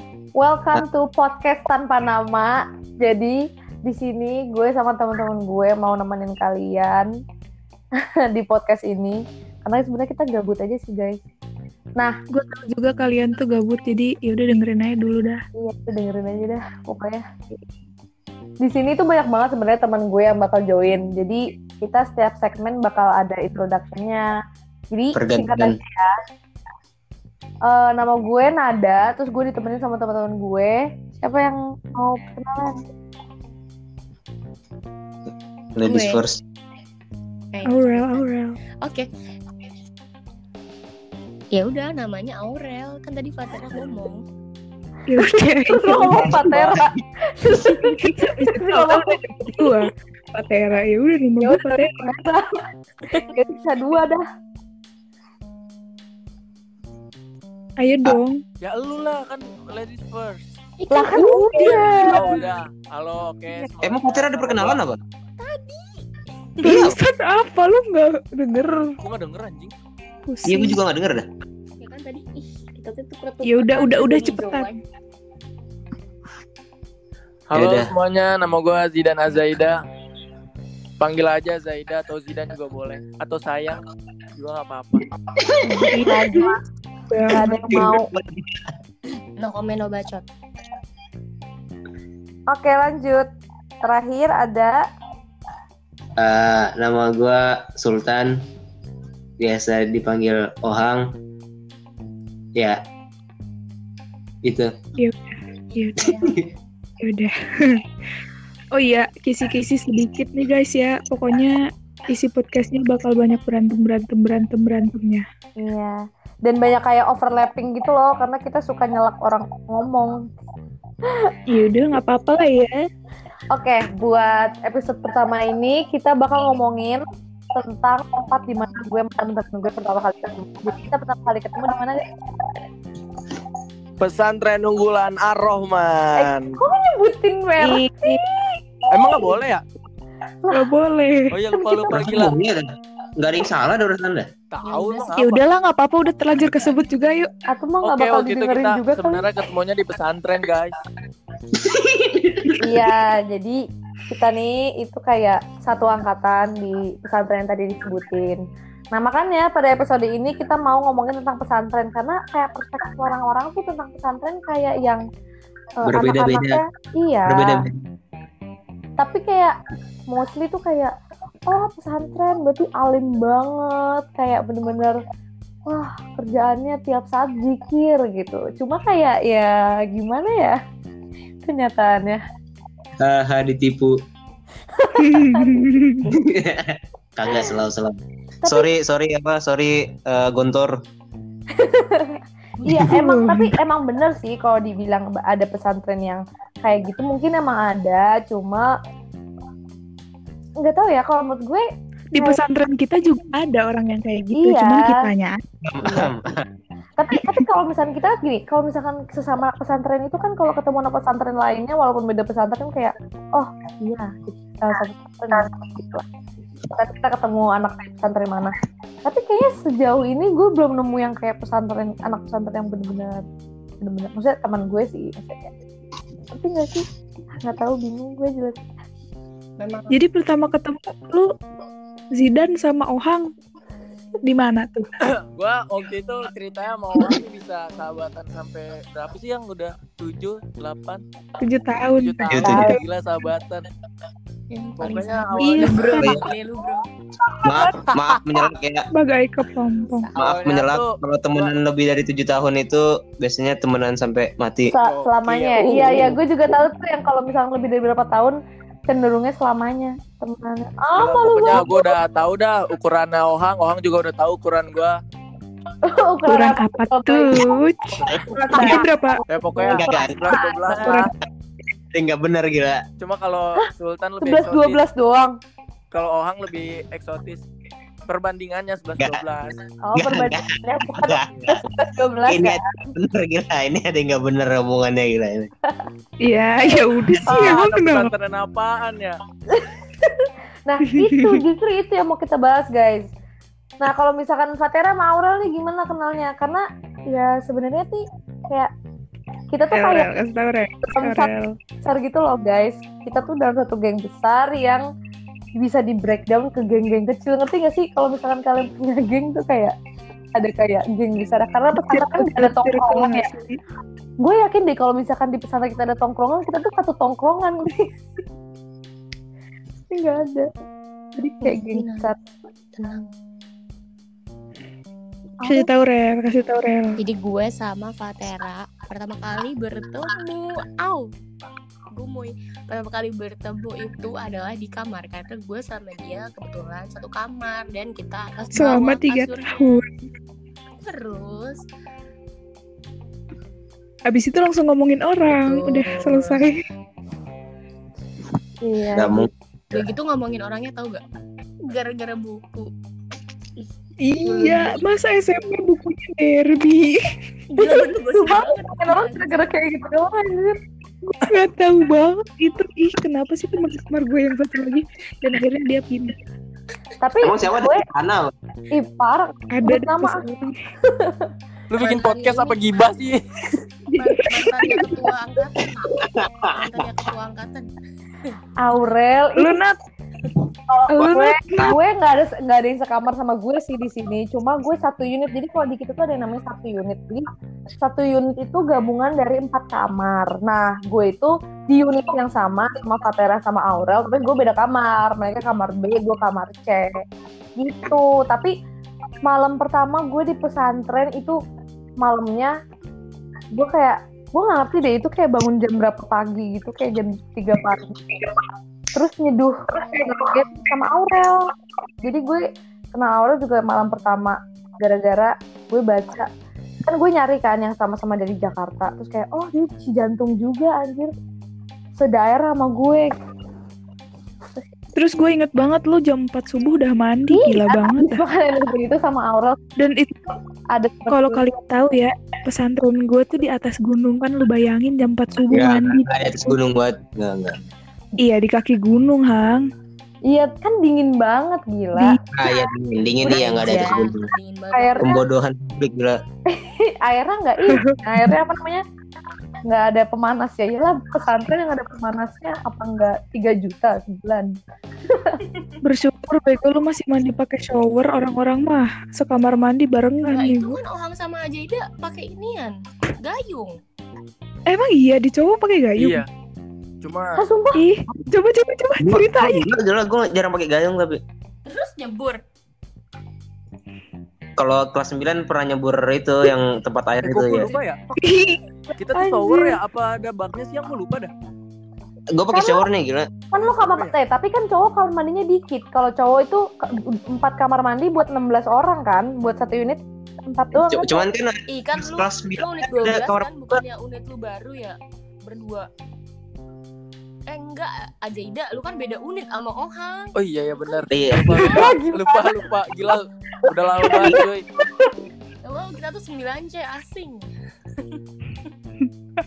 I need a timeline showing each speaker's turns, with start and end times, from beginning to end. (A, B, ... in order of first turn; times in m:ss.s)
0:00.4-0:07.1 A
0:08.3-0:11.2 A
0:12.3-0:15.4 B
0:15.6-0:17.3 A
0:18.6-0:24.3 A
0:24.9-0:26.2 A
0:25.1-0:25.8 C
0:27.7-0:32.8 A
0:35.8-0:36.4 C
0:35.8-0:36.2 D
0:37.5-0:38.3 D
0:37.6-0:38.6 B
0:38.8-0:39.1 D
0:41.5-0:44.2 D
0:45.1-0:46.4 B
0:45.2-0:49.8 A
0:46.1-0:47.0 C
0:47.7-0:52.1 B
0:51.4-0:52.6 A
0:53.1-0:54.2 A
0:57.8-0:58.4 B
0:58.6-1:00.5 E
1:00.8-1:02.5 D
1:00.9-1:02.4 A
1:01.1-1:01.8 B
1:01.9-1:04.8 E
1:03.8-1:05.0 C
1:05.4-1:06.9 D
1:06.6-1:09.0 B
1:06.6-1:07.0 C
1:09.0-1:09.7 E
1:10.3-1:10.8 B
1:10.5-1:11.3 C
1:11.8-1:14.8 D
1:13.4-1:14.7 B
1:17.5-1:19.8 E
1:17.5-1:17.9 C
1:21.0-1:23.8 E
1:24.4-1:25.1 E
1:25.4-1:26.1 C
1:25.7-1:26.6 B
1:26.0-1:26.6 A
1:27.1-1:27.9 B
1:27.3-1:28.1 A
1:27.7-1:28.7 C
1:29.4-1:30.3 D
1:32.5-1:33.3 A
1:33.8-1:34.8 A
1:36.2-1:38.4 C
1:39.4-1:41.2 C
1:42.6-1:42.8 C
1:44.4-1:44.7 C
1:45.0-1:46.0 B
1:45.8-1:46.4 D
1:46.0-1:46.4 C
1:47.0-1:47.8 B
1:48.8-1:51.6 B
1:52.1-1:55.2 B
1:55.6-2:00.2 A
2:01.1-2:01.3 A
2:01.5-2:02.8 B
2:03.5-2:07.0 A
2:07.5-2:12.1 A
2:14.0-2:16.6 E
2:16.2-2:19.2 A
2:17.6-2:18.2 B
2:18.9-2:19.6 E
2:20.4-2:20.7 A
2:20.5-2:21.4 B
2:21.3-2:22.3 E
2:21.5-2:22.0 A
2:21.9-2:24.3 C
2:24.5-2:25.4 E
2:24.6-2:25.2 D
2:25.2-2:27.3 B
2:27.5-2:29.3 A
2:27.8-2:30.8 E
2:31.5-2:32.9 C
2:32.6-2:33.6 A
2:34.1-2:38.4 A
2:38.9-2:45.0 A
2:45.8-2:47.6 A
2:45.9-2:46.6 C
2:47.3-2:47.8 C
2:49.0-2:49.6 A
2:50.1-2:50.9 A
2:51.5-2:55.0 A
2:55.7-3:00.6 A
3:01.4-3:02.2 A
3:03.0-3:04.0 C
3:04.8-3:05.7 A
3:05.0-3:06.1 B
3:06.1-3:10.8 C
3:11.6-3:18.7 A
3:12.7-3:13.6 B
3:20.6-3:21.6 A
3:22.1-3:26.1 B
3:22.2-3:22.4 A
3:24.4-3:25.0 A
3:25.6-3:26.5 C
3:27.0-3:36.1 A
3:27.1-3:27.5 B
3:36.7-3:43.2 A
3:43.8-3:45.5 A
3:46.3-3:46.9 A
3:47.4-3:48.6 A
3:49.6-3:50.0 D
3:49.9-3:51.3 B
3:52.2-3:53.3 B
3:54.2-3:54.9 B
3:55.1-4:01.0 E
4:01.4-4:02.8 B
4:02.0-4:03.7 E
4:02.3-4:02.7 C
4:02.4-4:02.8 A
4:04.5-4:06.9 D
4:04.8-4:06.3 E
4:05.4-4:06.2 B
4:06.0-4:06.2 C
4:07.4-4:08.9 C
4:07.5-4:07.8 B
4:08.9-4:10.1 B
4:09.9-4:10.3 D
4:10.2-4:11.5 E
4:10.2-4:14.7 C
4:14.7-4:18.4 A
4:14.8-4:15.8 E
4:18.9-4:21.9 A
4:21.0-4:25.0 E
4:25.9-4:27.6 A
4:26.3-4:29.2 B
4:28.1-4:31.1 E
4:28.3-4:31.0 A
4:29.7-4:30.4 C
4:30.8-4:31.1 B
4:31.9-4:32.8 C
4:33.0-4:34.8 E
4:34.2-4:35.3 A
4:35.9-4:37.4 E
4:38.1-4:39.6 E
4:39.9-4:42.9 A
4:40.0-4:41.7 C
4:42.3-4:45.5 C
4:46.2-4:48.1 B
4:47.2-4:49.2 E
4:49.5-4:53.1 A
4:50.8-4:51.4 B
4:53.8-4:58.7 A
4:59.5-5:00.1 A
4:59.7-5:01.6 B
5:00.8-5:01.3 A
5:01.8-5:04.8 A
5:05.6-5:09.7 A
5:10.4-5:13.3 A
5:11.9-5:13.6 B
5:14.2-5:17.9 A
5:19.9-5:20.5 A
5:21.2-5:22.2 A
5:21.4-5:22.1 D
5:22.7-5:23.1 D
5:25.4-5:25.7 A
5:25.4-5:27.0 B
5:27.0-5:31.1 D
5:31.9-5:39.5 D
5:38.5-5:39.9 B
5:40.8-5:41.6 D
5:44.1-5:46.6 B
5:45.3-5:46.4 D
5:48.6-5:49.3 A
5:48.9-5:49.9 C
5:49.7-5:51.0 D
5:51.6-5:52.7 D
5:54.0-5:57.0 B
5:54.2-5:54.8 D
5:57.5-5:59.4 D
5:57.6-6:00.6 A
6:01.2-6:06.2 B
6:07.0-6:07.8 A
6:07.2-6:08.3 C
6:08.7-6:10.3 A
6:09.5-6:10.5 B
6:10.9-6:11.3 A
6:11.7-6:13.2 E
6:11.8-6:12.6 D
6:14.0-6:17.7 D
6:14.4-6:14.9 B
6:16.0-6:16.9 C
6:18.6-6:19.6 A
6:19.4-6:19.8 B
6:20.7-6:27.3 A
6:20.9-6:21.8 B
6:21.0-6:21.8 C
6:27.8-6:37.0 A
6:37.6-6:38.5 A
6:39.3-6:41.4 A
6:42.0-6:42.5 A
6:43.5-6:48.3 A
6:48.9-6:51.5 A
6:52.0-6:56.3 A
6:56.8-7:01.1 A
7:02.0-7:03.1 A
7:05.0-7:08.2 B
7:07.3-7:09.6 A
7:09.8-7:10.3 B
7:10.7-7:11.6 A
7:11.1-7:16.6 B
7:15.5-7:17.6 C
7:18.2-7:19.7 B
7:20.3-7:22.5 A
7:22.0-7:22.2 B
7:22.3-7:24.3 C
7:23.2-7:25.2 D
7:23.3-7:23.7 A
7:24.7-7:25.2 A
7:25.0-7:26.2 C
7:26.5-7:28.8 A
7:27.7-7:28.4 B
7:29.6-7:34.6 A
7:35.1-7:35.4 A
7:35.8-7:40.8 B
7:40.2-7:43.8 D
7:44.7-7:46.2 B
7:46.0-7:46.3 E
7:47.0-7:47.4 E
7:47.4-7:47.9 A
7:47.8-7:49.7 B
7:49.0-7:51.2 C
7:51.7-7:52.4 D
7:54.6-7:57.7 C
7:57.2-7:58.1 E
7:58.2-7:58.6 B
7:59.0-8:01.3 E
7:59.2-7:59.8 A
8:02.3-8:03.3 C
8:02.5-8:02.8 A
8:03.5-8:11.3 A
8:03.6-8:04.1 E
8:10.8-8:13.8 C
8:11.7-8:15.9 D
8:17.5-8:21.1 D
8:20.4-8:24.7 E
8:21.1-8:21.6 C
8:21.6-8:22.5 A
8:21.7-8:21.9 D
8:24.1-8:24.4 A
8:25.6-8:28.7 D